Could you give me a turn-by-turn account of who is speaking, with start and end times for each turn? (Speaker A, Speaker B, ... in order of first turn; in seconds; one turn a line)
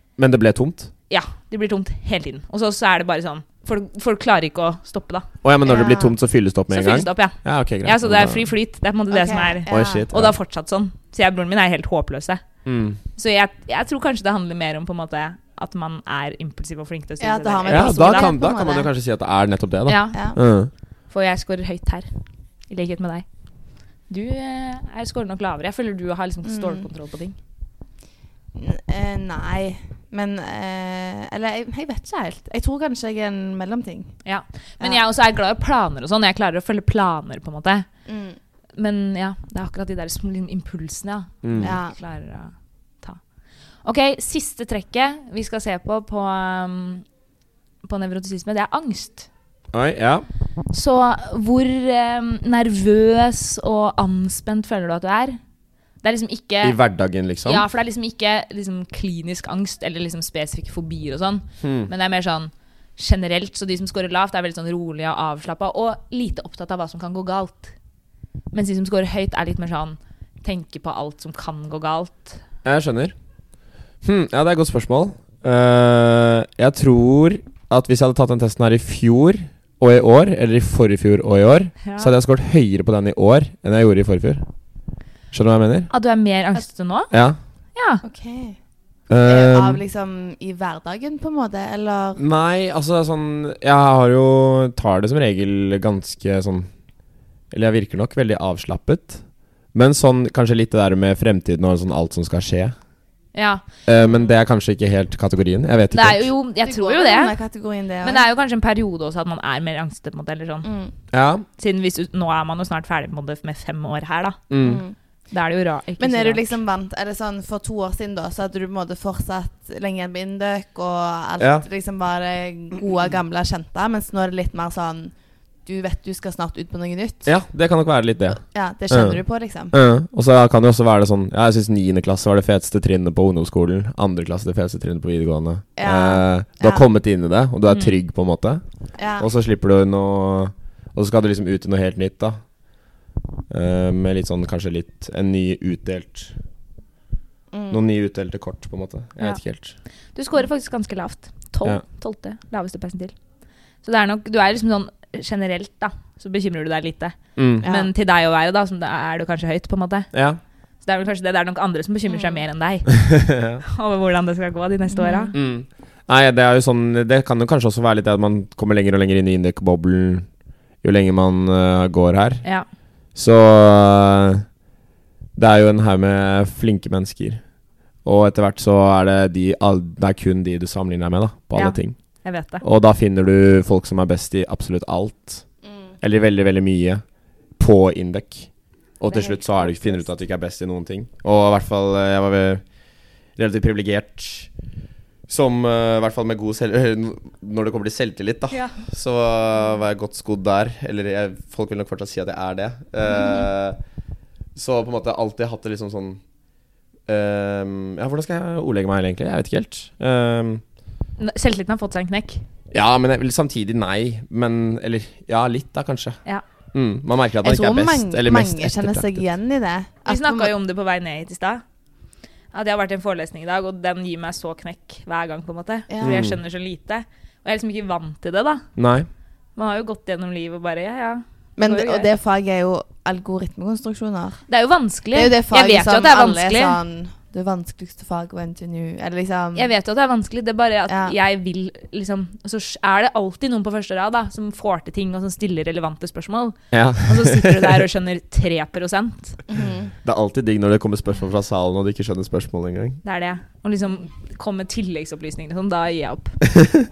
Speaker A: 0.2-0.9
Speaker B: 1.1-5.3
Speaker A: 5.4-8.5
Speaker C: 5.7-6.1
Speaker B: 6.7-12.4
Speaker C: 9.1-10.1
Speaker A: 9.7-10.4
Speaker A: 12.7-13.0
Speaker B: 13.2-18.3
Speaker C: 17.2-18.9
Speaker A: 17.7-20.7
Speaker B: 19.9-20.3
Speaker C: 20.1-20.4
Speaker B: 21.1-22.1
Speaker B: 22.7-23.3
Speaker B: 24.1-27.4
Speaker C: 26.4-26.9
Speaker C: 28.6-34.2
Speaker B: 34.2-37.9
Speaker C: 38.1-38.4
Speaker B: 38.8-43.2
Speaker A: 41.4-41.8
Speaker C: 41.6-42.0
Speaker B: 43.8-47.0
Speaker B: 47.9-49.3
Speaker A: 49.7-50.3
Speaker B: 50.7-55.4
Speaker B: 56.0-56.8
Speaker A: 56.6-57.6
Speaker B: 57.5-67.7
Speaker A: 61.6-61.9
Speaker B: 68.5-72.4
Speaker A: 72.7-73.2
Speaker A: 74.0-84.5
Speaker B: 81.8-82.1
Speaker A: 85.3-85.9
Speaker B: 85.9-87.1
Speaker A: 87.1-87.4
Speaker B: 87.8-88.0
Speaker C: 88.0-88.6
Speaker A: 89.1-89.8
Speaker C: 89.2-92.2
Speaker A: 92.2-96.7
Speaker A: 97.5-99.2
Speaker A: 99.7-102.8
Speaker B: 103.3-103.7
Speaker A: 103.9-106.3
Speaker B: 105.9-107.4
Speaker C: 106.6-108.3
Speaker B: 108.0-110.7
Speaker C: 110.6-110.9
Speaker A: 111.1-111.5
Speaker B: 111.6-114.4
Speaker A: 114.5-114.8
Speaker C: 114.6-115.0
Speaker B: 115.3-116.6
Speaker C: 116.0-125.1
Speaker A: 121.4-121.7
Speaker C: 125.7-127.3
Speaker A: 127.3-129.2
Speaker C: 128.3-129.8
Speaker A: 129.7-138.6
Speaker C: 135.8-136.9
Speaker B: 137.7-138.0
Speaker C: 139.0-139.3
Speaker A: 139.2-142.4
Speaker A: 143.5-146.4
Speaker C: 147.5-147.8
Speaker A: 147.7-149.8
Speaker B: 150.2-153.2
Speaker B: 153.8-160.1
Speaker A: 157.4-157.7
Speaker C: 157.6-157.9
Speaker A: 160.1-160.4
Speaker B: 160.8-163.1
Speaker C: 162.1-162.4
Speaker A: 163.0-163.6
Speaker B: 163.6-165.3
Speaker C: 164.9-165.3
Speaker A: 165.3-170.3
Speaker A: 170.8-172.4
Speaker A: 173.2-174.4
Speaker A: 175.4-177.4
Speaker A: 178.1-182.0
Speaker B: 181.6-182.6
Speaker A: 182.6-185.5
Speaker C: 185.6-185.9
Speaker A: 186.0-187.0
Speaker A: 187.6-192.6
Speaker B: 189.1-190.1
Speaker A: 193.4-194.5
Speaker A: 195.3-203.8
Speaker B: 198.5-198.8
Speaker A: 204.6-206.2
Speaker A: 207.1-210.6
Speaker B: 211.2-212.4
Speaker A: 212.7-216.2
Speaker A: 216.7-219.2
Speaker C: 217.4-220.5
Speaker B: 220.1-221.6
Speaker B: 222.5-228.7
Speaker C: 225.9-226.3
Speaker A: 226.0-226.4
Speaker A: 228.8-229.1
Speaker B: 229.6-232.1
Speaker C: 231.6-234.5
Speaker B: 234.5-236.8
Speaker C: 235.1-239.7
Speaker B: 239.6-249.4
Speaker C: 240.9-241.2
Speaker A: 246.7-247.8
Speaker C: 249.5-249.9
Speaker A: 250.0-253.0
Speaker B: 253.0-256.4